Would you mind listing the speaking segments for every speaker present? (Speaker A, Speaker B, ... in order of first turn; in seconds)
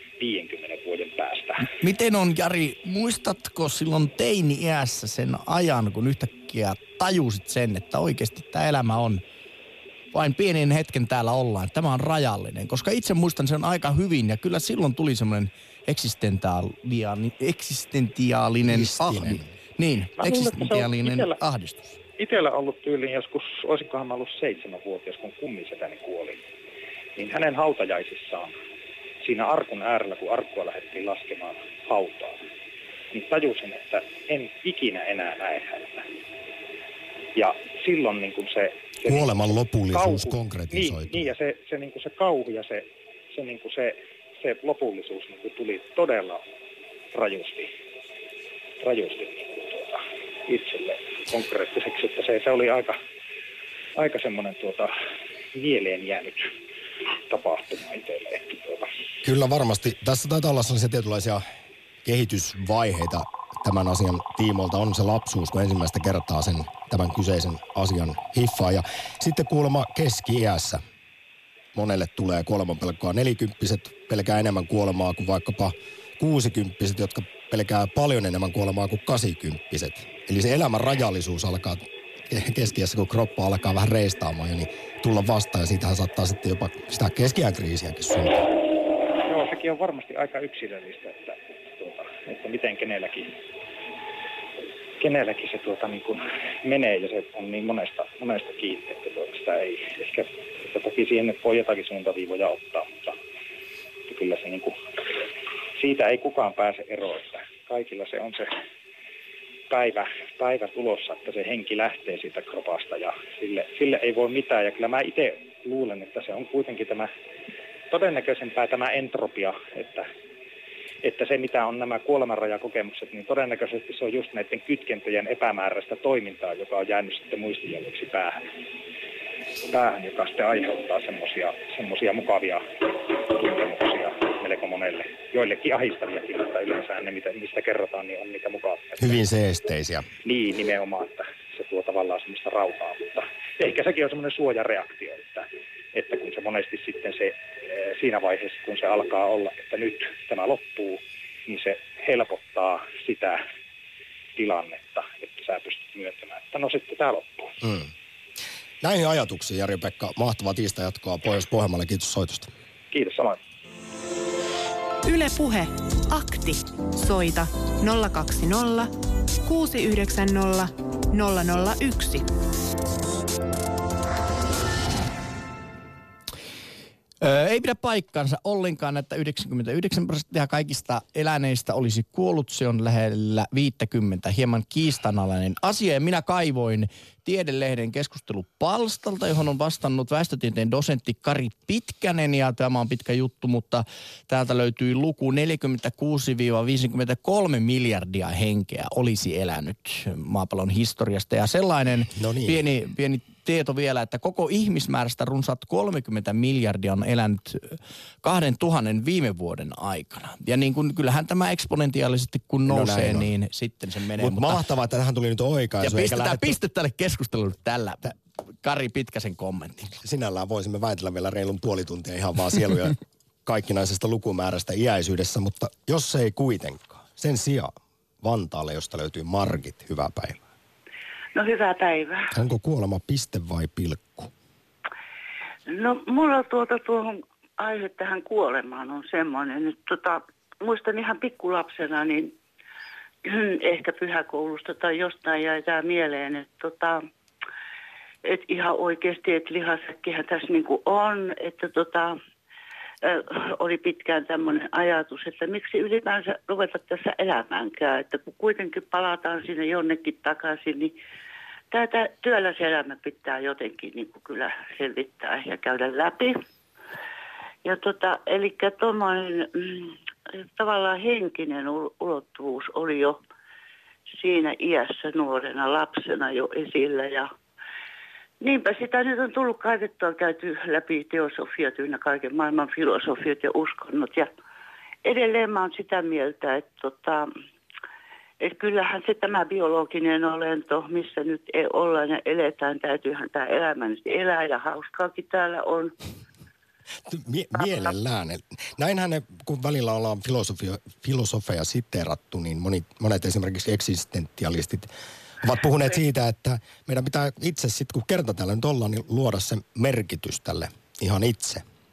Speaker A: 0.2-1.7, 20.2-21.4, 22.2-26.4, 27.1-28.5, 29.2-32.4, 33.1-36.1, 37.3-39.3, 39.9-46.4, 47.1-47.7, 48.8-53.0, 54.0-54.9, 55.5-56.5, 57.3-58.9, 89.2-93.3, 95.0-103.2, 104.1-108.5, 109.7-117.1, 117.9-120.1, 121.0-128.5, 129.7-139.2, 140.2-153.4, 154.3-157.6, 162.9-163.4
Speaker B: 1.6-9.2, 10.1-22.0, 177.2-214.6, 215.8-219.9
Speaker C: 18.7-19.5, 39.0-41.3, 59.2-61.4, 62.0-70.8, 71.7-88.5, 139.0-140.1, 157.6-157.9, 158.8-162.5, 202.1-202.6, 212.7-213.3, 214.2-216.6, 220.0-230.4, 232.3-234.3, 297.1-304.9, 305.4-311.6
Speaker D: 165.0-168.9, 169.4-172.3
Speaker E: 231.3-232.3, 235.7-242.3, 243.2-247.0, 248.2-252.1, 253.0-260.9, 261.7-266.4, 267.6-273.2, 274.2-277.3, 278.4-284.3, 285.0-287.2, 288.4-295.9